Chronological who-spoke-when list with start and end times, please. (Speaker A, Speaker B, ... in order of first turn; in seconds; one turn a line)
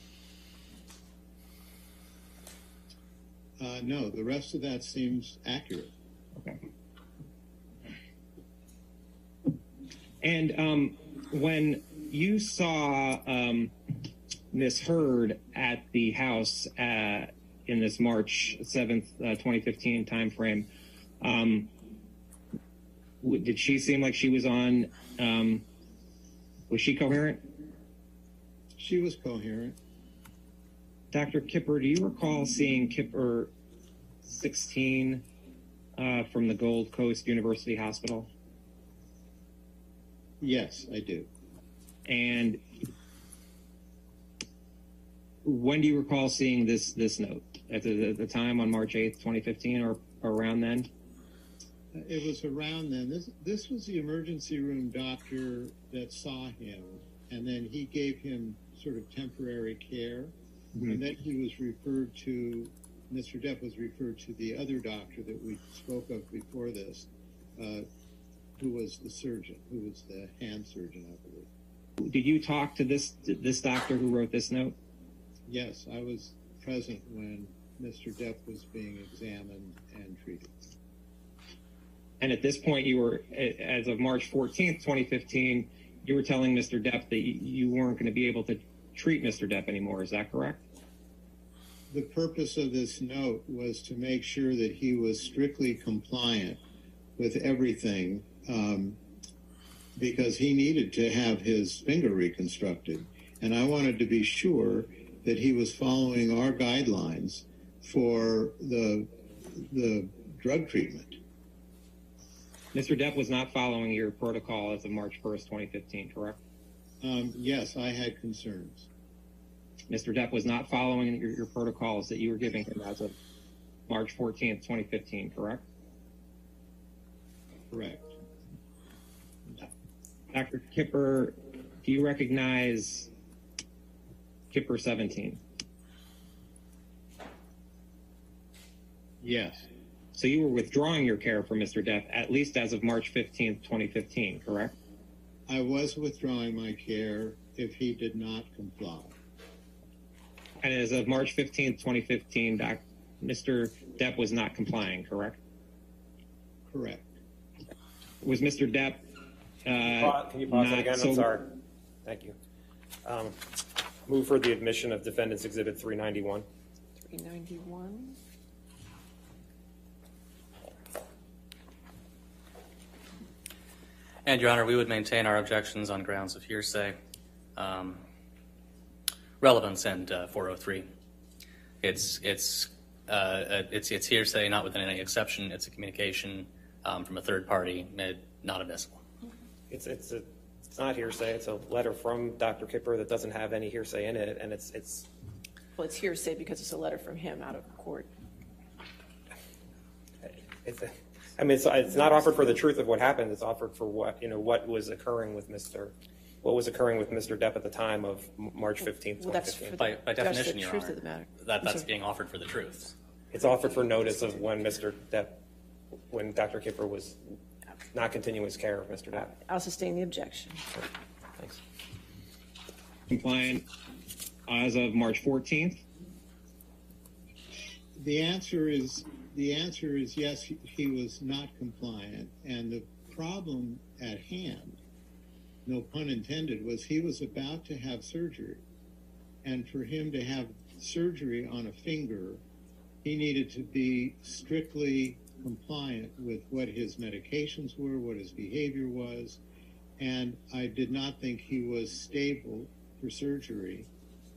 Speaker A: 3.6-5.9
Speaker B: 10.2-13.7
Speaker B: 14.5-20.7
Speaker B: 21.2-21.7
Speaker B: 23.2-25.6
Speaker B: 26.7-27.4
Speaker A: 28.8-29.8
Speaker B: 31.1-33.5
Speaker B: 34.2-35.2
Speaker B: 36.0-38.3
Speaker A: 40.4-41.3
Speaker B: 42.1-42.6
Speaker B: 45.4-50.9
Speaker A: 51.9-67.9
Speaker A: 68.6-71.5
Speaker B: 72.0-74.8
Speaker A: 75.5-80.7
Speaker B: 82.2-90.6
Speaker A: 91.9-96.6
Speaker A: 97.2-99.0
Speaker A: 100.0-111.2
Speaker B: 112.7-116.4
Speaker A: 117.0-118.9
Speaker B: 119.9-123.1
Speaker B: 123.9-125.6
Speaker A: 127.7-128.1
Speaker B: 130.3-133.1
Speaker B: 134.5-135.4
Speaker A: 139.2-139.7
Speaker B: 140.2-144.8
Speaker A: 145.5-149.2
Speaker B: 150.6-155.4
Speaker A: 156.7-157.1
Speaker B: 158.2-159.0
Speaker B: 159.7-161.3
Speaker C: 159.9-161.5
Speaker C: 162.1-162.3
Speaker C: 163.1-163.4
Speaker C: 164.1-166.4
Speaker D: 167.0-168.2
Speaker E: 174.2-177.0
Speaker E: 177.6-178.0
Speaker E: 179.4-180.9
Speaker E: 181.8-189.0
Speaker C: 189.7-195.1
Speaker D: 195.8-198.1
Speaker C: 200.6-209.7
Speaker D: 209.2-211.9
Speaker E: 209.8-212.9
Speaker C: 213.3-215.4
Speaker C: 216.1-217.2
Speaker C: 217.9-219.3
Speaker D: 219.4-220.7
Speaker B: 223.1-223.7
Speaker B: 224.5-225.8
Speaker A: 227.9-234.8
Speaker A: 235.7-238.6
Speaker A: 239.4-242.4
Speaker A: 243.0-249.4
Speaker A: 250.0-253.9